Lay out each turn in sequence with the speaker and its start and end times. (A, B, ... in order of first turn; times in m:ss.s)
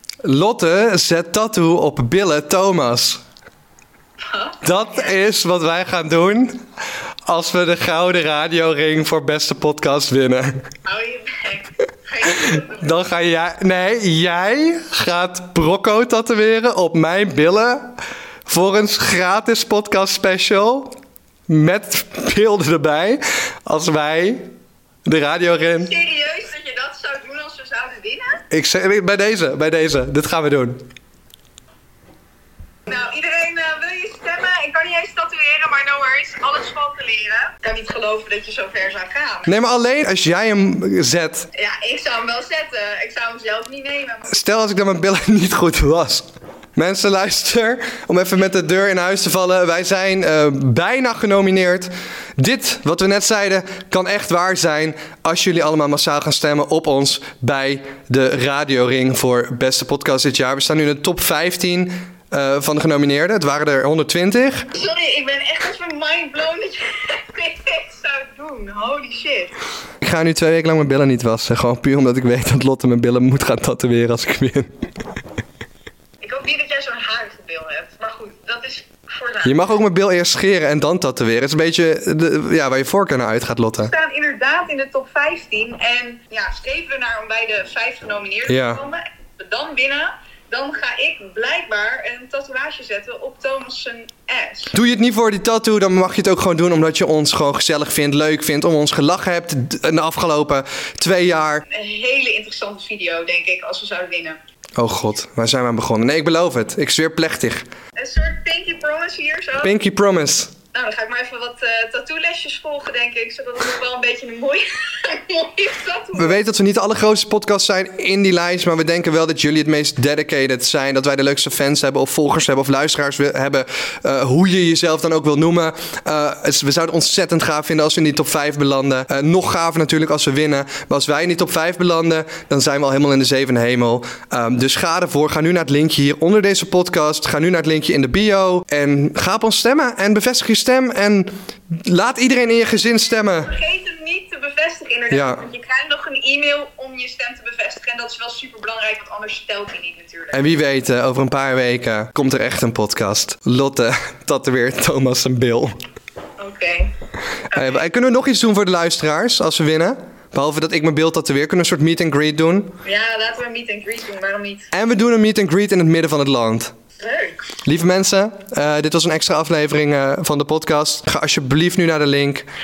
0:00.2-0:03.2 A
0:04.2-0:05.1 B
0:04.6-0:06.6 A
0:07.3-0:10.6 A
0:10.8-0:12.9 B
0:12.3-0:17.9 A
0:18.5-0:20.9 A
0:21.5-0:24.5 A
0:25.0-0:25.9 A
0:25.7-0:28.4 B
0:28.5-0:30.8 A
0:32.9-0:39.5 B
0:39.5-0:41.5 A
0:41.5-0:44.4 B
0:44.3-1:04.7 A
1:04.7-1:09.5 B
1:10.0-1:14.7 A
1:16.2-1:19.8 B
1:19.4-1:23.9 A
1:23.8-1:34.7 B
1:28.5-1:28.8 A
1:34.7-1:41.6 A
1:41.7-1:44.4 B
1:44.8-1:47.6 A
1:48.0-1:49.7 B
1:49.6-1:50.5 A
1:50.7-1:56.4 B
1:56.2-2:23.5 A
2:23.4-2:30.5 B
2:25.1-2:25.4 A
2:30.3-2:35.8 A
2:36.4-2:36.9 B
2:37.5-2:37.8 B
2:37.5-2:42.7 A
2:42.8-2:44.7 B
2:44.7-2:46.7 A
2:47.0-2:47.4 B
2:47.6-2:52.4 A